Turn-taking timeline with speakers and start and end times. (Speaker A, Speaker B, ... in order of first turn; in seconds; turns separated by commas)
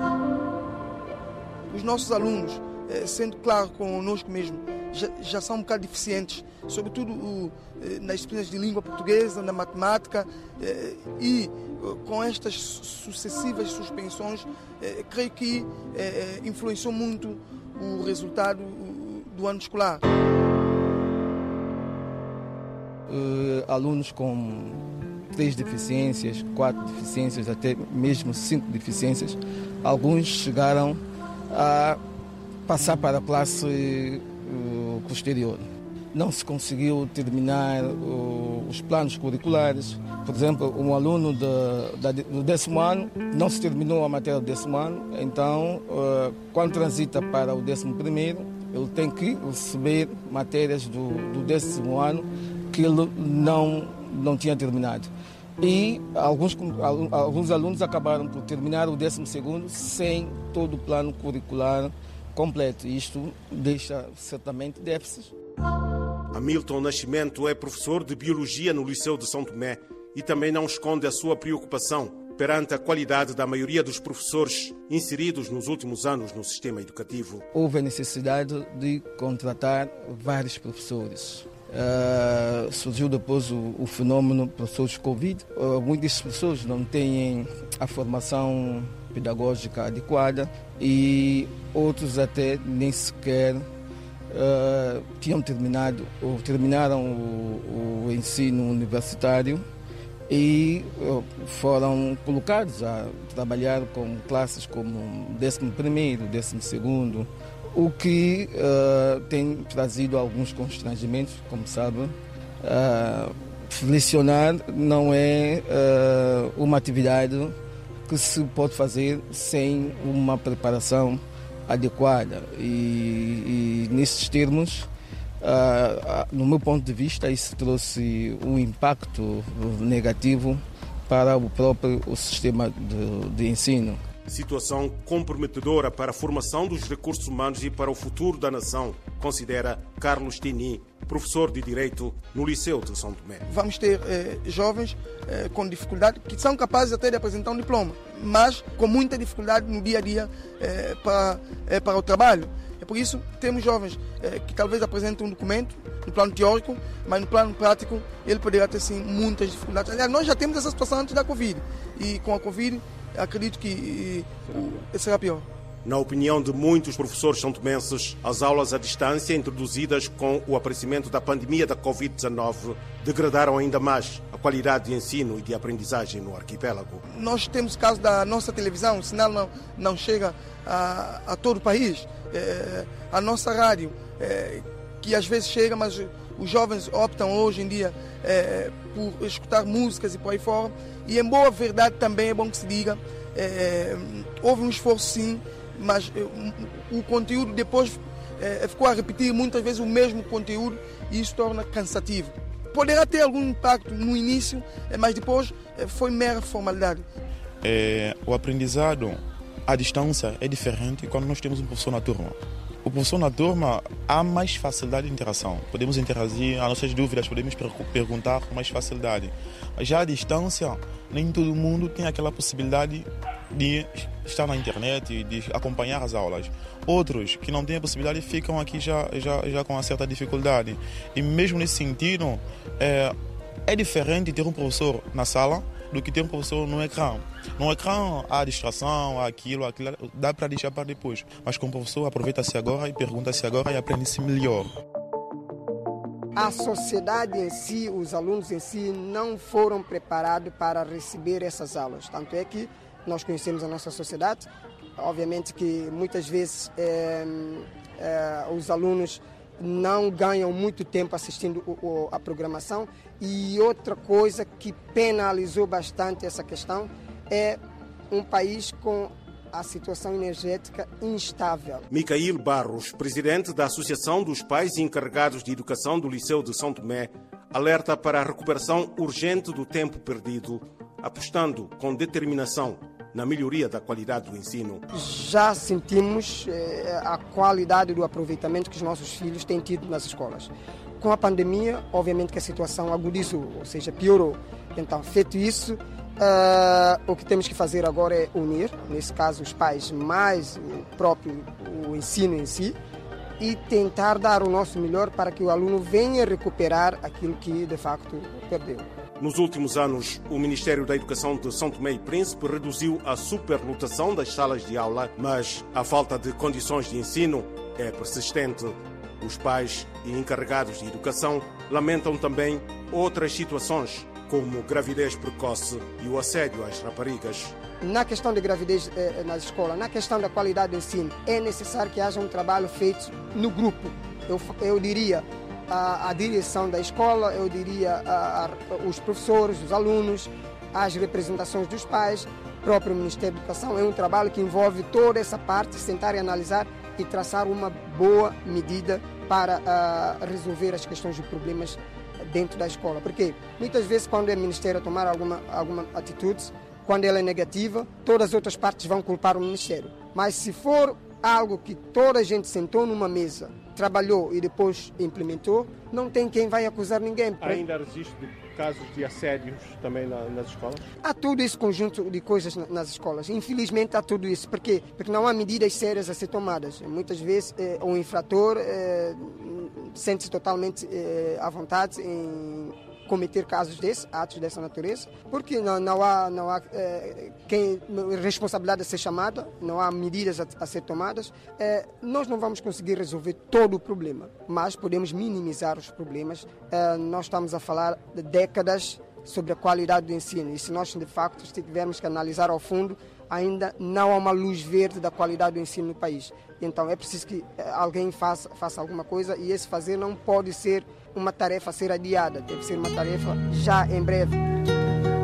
Speaker A: 1.7-20.0, Speaker B: 23.1-32.0, Speaker B: 32.7-65.3, Speaker C: 66.3-77.5, Speaker B: 77.5-93.7, Speaker B: 94.3-99.7, Speaker B: 100.3-117.5, Speaker B: 118.1-124.9, Speaker B: 125.4-134.0, Speaker C: 134.3-143.4, Speaker A: 143.5-165.5, Speaker C: 165.8-177.0, Speaker A: 177.1-207.1, Speaker D: 207.6-233.1, Speaker D: 233.7-244.7, Speaker E: 246.3-267.6, Speaker E: 268.1-271.9, Speaker C: 271.9-284.8, Speaker E: 284.9-302.8, Speaker E: 303.4-308.9, Speaker C: 309.2-327.6, Speaker E: 327.8-367.6, Speaker C: 367.4-370.8, Speaker E: 371.0-414.4